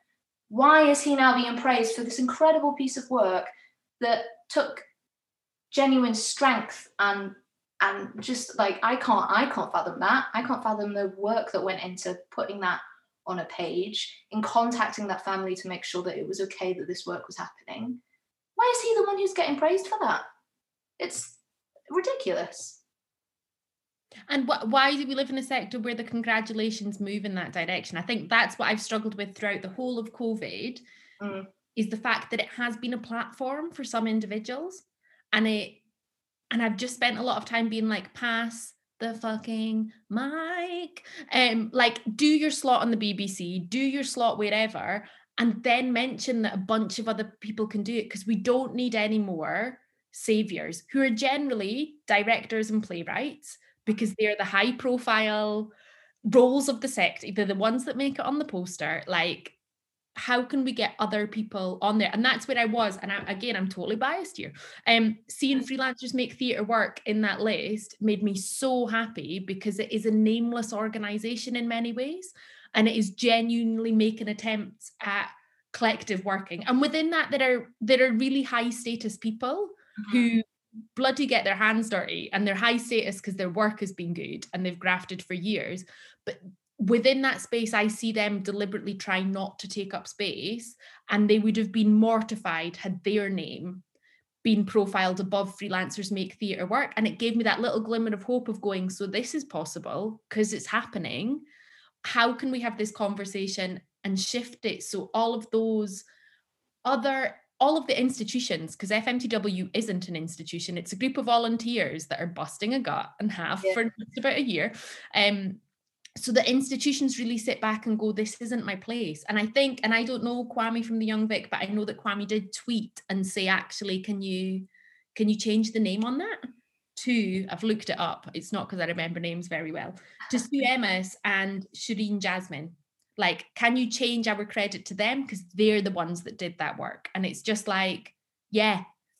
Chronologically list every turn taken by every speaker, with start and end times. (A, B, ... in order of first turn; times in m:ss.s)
0:00.5-0:04.8 A
0:05.7-0:18.0 A
0:18.6-0:20.2 A
0:21.0-0:21.4 A
0:21.9-0:22.8 A
0:24.3-0:30.8 B
0:31.2-0:31.5 A
0:31.8-0:35.8 B
0:36.5-0:55.7 B
0:56.3-0:59.6 B
1:00.2-1:33.8 B
1:20.0-1:20.3 A
1:34.4-1:41.4 B
1:42.0-1:46.0 B
1:46.8-1:55.6 B
1:56.2-2:06.4 B
2:07.0-2:18.8 B